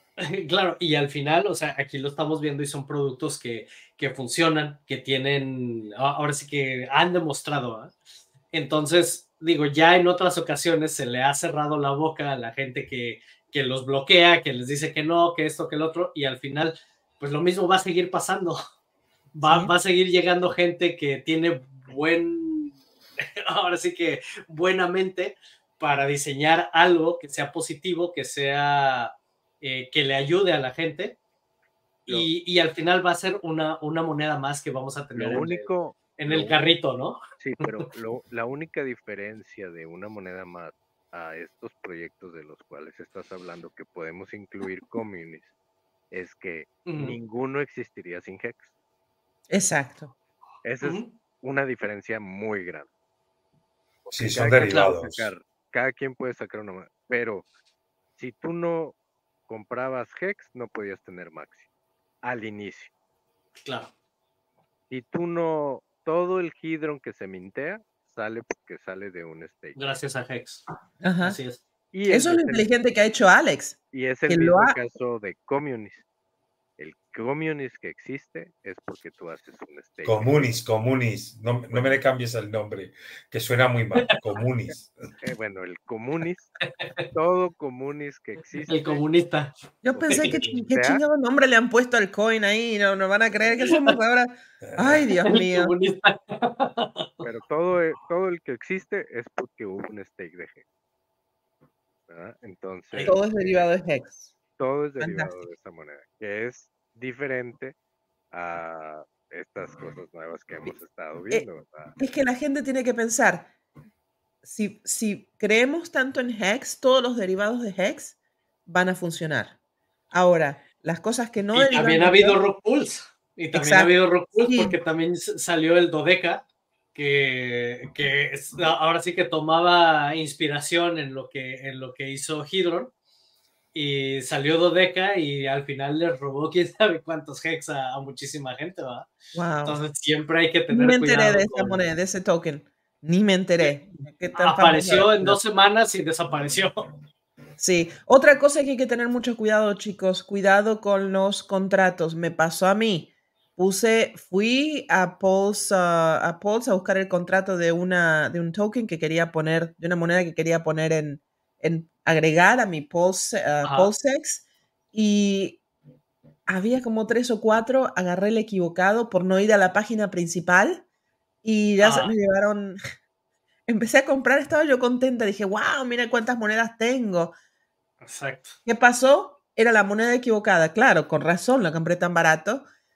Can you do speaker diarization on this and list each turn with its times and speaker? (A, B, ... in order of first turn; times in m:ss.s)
0:00.2-0:07.9 A
0:08.5-0:18.6 A
0:19.3-0:31.2 A
0:19.4-0:19.7 B
0:32.1-0:37.7 A
0:35.2-0:36.6 C
0:37.4-0:45.5 C
0:46.1-0:48.7 C
0:46.9-0:47.2 A
0:49.5-0:50.1 B
0:50.6-0:52.9 C
0:50.8-0:51.1 A
0:54.0-0:57.5 C
0:54.1-0:55.3 D
0:54.6-0:54.9 A
0:58.2-0:59.0 C
0:59.5-1:01.7 C
1:02.2-1:02.9 C
1:03.6-1:03.9 A
1:04.9-1:09.8 C
1:09.8-1:10.6 A
1:11.0-1:11.4 B
1:11.2-1:11.6 A
1:11.9-1:12.7 C
1:12.1-1:14.8 B
1:13.9-1:16.0 C
1:16.8-1:20.6 C
1:20.0-1:24.9 D
1:21.7-1:22.0 C
1:25.2-1:26.6 C
1:26.8-1:27.1 A
1:27.1-1:29.0 C
1:28.6-1:29.6 A
1:29.8-1:35.7 B
1:29.9-1:31.0 C
1:30.1-1:30.4 A
1:33.6-1:34.0 A
1:34.7-1:35.0 D
1:35.2-1:37.1 A
1:37.2-1:40.6 C
1:42.1-1:43.2 C
1:43.0-1:44.3 B
1:44.6-1:47.8 C
1:45.0-1:45.4 B
1:48.3-1:52.0 C
1:52.0-1:53.5 B
1:54.4-1:58.2 B
1:58.7-1:59.6 B
2:00.1-2:02.4 B
2:01.5-2:12.9 A
2:03.5-2:03.9 B
2:04.4-2:04.8 B
2:13.7-2:19.1 A
2:19.3-2:19.8 B
2:19.7-2:21.8 A
2:20.7-2:25.4 B
2:24.4-2:26.9 A
2:27.6-2:45.6 B
2:43.6-2:43.9 A
2:46.5-2:50.8 B
2:51.4-2:52.8 B
2:51.8-2:52.2 A
2:53.7-2:57.4 B
2:58.0-2:58.6 A
2:58.6-3:02.6 B